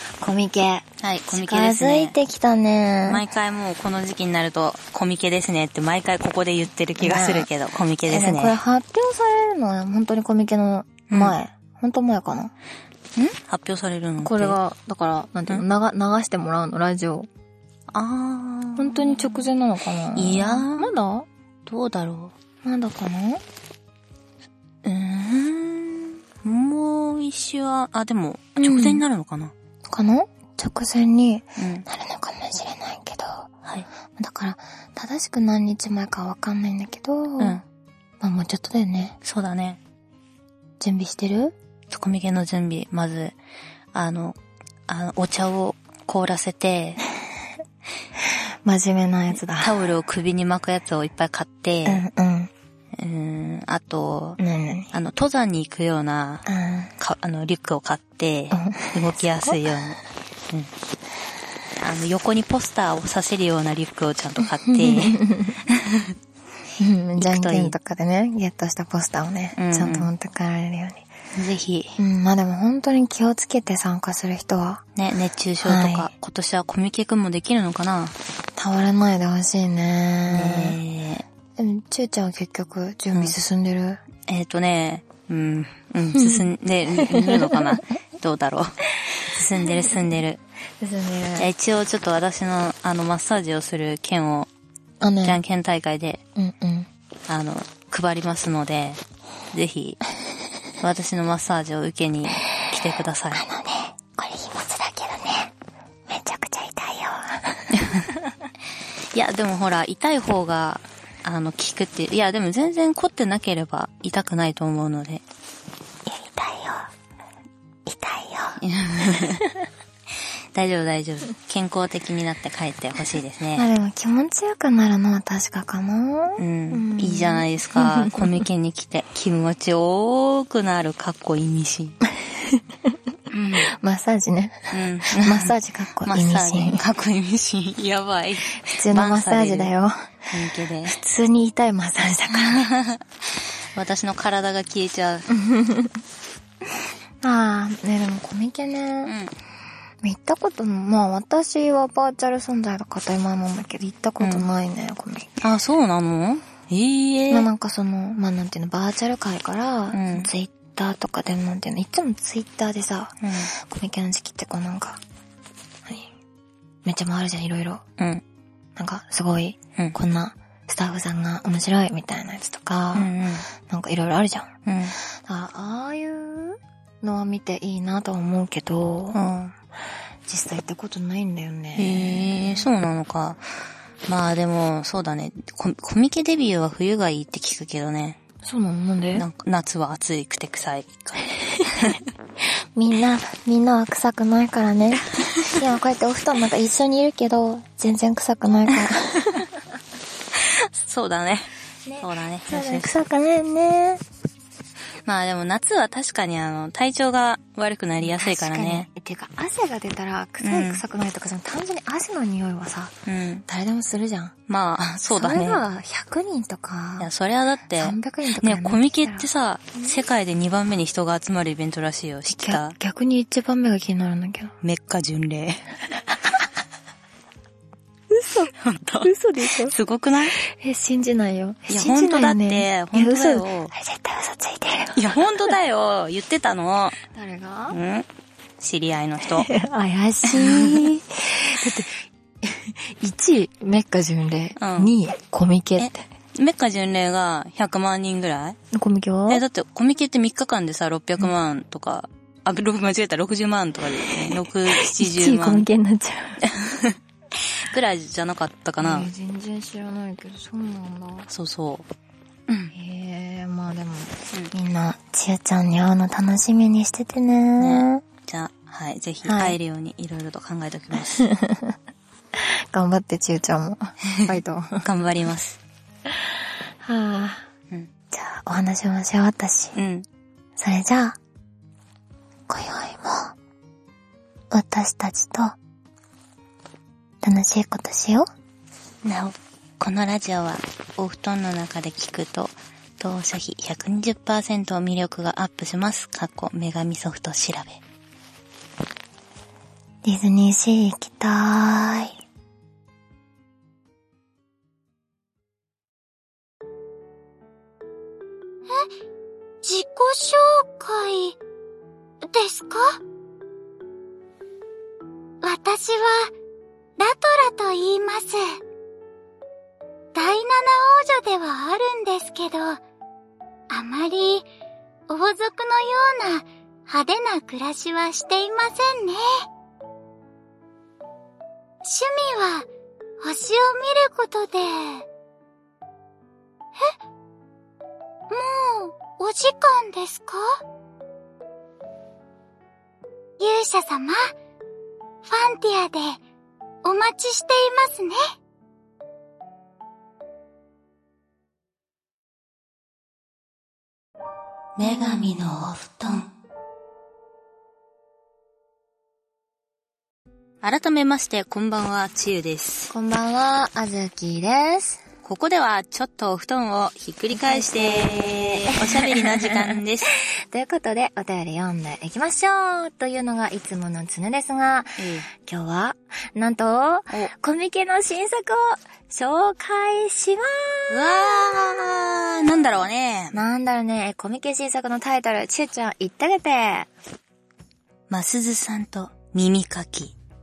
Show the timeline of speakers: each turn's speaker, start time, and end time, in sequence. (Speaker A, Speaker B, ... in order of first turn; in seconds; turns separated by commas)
Speaker A: 0.2-3.2, Speaker B: 1.0-2.1, Speaker B: 3.0-8.6, Speaker A: 7.0-7.5, Speaker A: 8.1-12.5, Speaker B: 11.1-11.3, Speaker B: 13.1-14.6, Speaker A: 14.2-17.3, Speaker B: 17.9-19.5, Speaker A: 18.8-21.3, Speaker B: 20.1-20.9, Speaker B: 21.6-22.3, Speaker A: 22.6-23.4, Speaker B: 24.8-29.5, Speaker A: 28.6-29.0, Speaker A: 29.9-33.5, Speaker B: 31.6-31.9, Speaker A: 34.2-37.6, Speaker A: 38.2-39.2, Speaker B: 39.2-39.8, Speaker A: 40.8-41.5, Speaker B: 41.9-43.3, Speaker B: 43.9-47.0, Speaker A: 48.6-49.7, Speaker B: 49.3-52.0, Speaker A: 51.9-52.5, Speaker B: 53.0-54.4, Speaker A: 54.4-54.9, Speaker B: 54.9-56.5, Speaker A: 56.5-56.9, Speaker B: 57.0-60.0, Speaker A: 58.5-59.6, Speaker B: 61.8-66.1, Speaker A: 64.6-65.6, Speaker A: 66.8-71.0, Speaker B: 67.2-67.7, Speaker B: 69.5-70.1, Speaker B: 71.3-72.0, Speaker A: 72.0-74.8, Speaker B: 75.0-78.1, Speaker A: 75.6-76.1, Speaker A: 78.6-80.8, Speaker B: 80.3-81.2, Speaker A: 81.6-84.0, Speaker B: 84.3-90.4, Speaker A: 86.1-86.4, Speaker A: 87.0-87.6, Speaker A: 90.8-91.5, Speaker B: 91.3-94.5, Speaker A: 95.0-95.4, Speaker B: 95.2-96.2, Speaker A: 96.3-96.9, Speaker B: 97.3-99.0, Speaker B: 99.5-100.0, Speaker B: 100.8-103.4, Speaker A: 103.3-105.5, Speaker A: 106.1-108.0, Speaker B: 109.1-115.2, Speaker A: 116.0-116.9, Speaker A: 117.9-118.6, Speaker B: 118.6-119.4, Speaker B: 120.5-123.7, Speaker A: 123.5-128.2, Speaker B: 126.4-132.0, Speaker B: 133.3-133.7, Speaker A: 133.6-136.8, Speaker B: 134.7-139.7, Speaker A: 138.6-140.1, Speaker B: 140.3-141.0, Speaker A: 140.8-142.7, Speaker B: 142.3-143.0, Speaker B: 143.7-145.3, Speaker A: 145.3-145.9, Speaker A: 147.2-149.1, Speaker B: 149.0-149.3, Speaker A: 150.0-155.3, Speaker B: 154.2-154.5, Speaker B: 155.4-157.5, Speaker A: 157.3-165.0, Speaker B: 159.9-160.3, Speaker B: 163.2-163.5, Speaker A: 166.8-167.8, Speaker B: 168.0-168.2, Speaker A: 168.8-173.1, Speaker B: 172.9-173.4, Speaker A: 173.7-174.5, Speaker B: 174.7-174.9, Speaker A: 175.2-179.2, Speaker B: 179.1-179.5, Speaker A: 180.3-182.7, Speaker B: 181.8-183.4, Speaker B: 184.1-188.2, Speaker A: 188.4-189.2, Speaker B: 189.1-191.2, Speaker A: 192.7-199.5, Speaker B: 200.5-202.9, Speaker A: 201.8-204.0, Speaker B: 205.0-208.9, Speaker A: 208.0-212.9, Speaker B: 210.4-210.8, Speaker B: 213.1-213.4, Speaker A: 213.5-214.3, Speaker B: 214.5-215.6, Speaker A: 215.1-217.1, Speaker B: 217.0-222.7, Speaker A: 217.8-220.0, Speaker A: 222.3-224.5, Speaker B: 224.6-225.7, Speaker A: 228.1-229.7, Speaker B: 228.6-230.3, Speaker A: 230.4-235.1, Speaker B: 231.7-233.7, Speaker B: 234.9-237.0, Speaker A: 237.1-237.8, Speaker B: 237.7-238.1, Speaker B: 238.6-239.5, Speaker A: 239.3-246.0, Speaker B: 240.2-240.9, Speaker B: 244.6-244.9, Speaker B: 245.8-248.6, Speaker A: 248.7-249.4, Speaker B: 249.3-255.7, Speaker A: 254.3-256.4, Speaker B: 257.4-259.1, Speaker A: 258.8-261.3, Speaker B: 261.3-261.9, Speaker B: 262.5-262.7, Speaker A: 262.7-268.0, Speaker B: 267.6-271.2, Speaker A: 269.2-269.6, Speaker A: 271.1-271.7, Speaker A: 272.4-274.8, Speaker B: 274.8-275.6, Speaker A: 276.8-277.4, Speaker A: 278.1-279.8, Speaker B: 279.7-280.1, Speaker A: 280.6-281.2, Speaker A: 282.5-283.3, Speaker A: 284.5-285.6, Speaker A: 287.2-288.3, Speaker B: 289.0-297.8, Speaker A: 300.0-302.1, Speaker C: 309.6-311.4, Speaker C: 312.2-313.0, Speaker C: 315.4-316.3, Speaker C: 317.0-318.6, Speaker C: 320.1-322.8, Speaker C: 323.7-324.5, Speaker C: 325.1-329.4, Speaker C: 331.8-332.7, Speaker C: 333.2-335.1, Speaker C: 338.3-340.6, Speaker C: 343.4-344.3, Speaker C: 345.2-346.2, Speaker C: 346.8-348.2, Speaker B: 354.8-356.2, Speaker B: 360.6-362.9, Speaker A: 362.9-365.0, Speaker B: 365.2-370.1, Speaker A: 367.3-382.5, Speaker B: 375.0-375.2, Speaker B: 380.9-383.4, Speaker A: 383.3-386.9, Speaker B: 388.1-390.1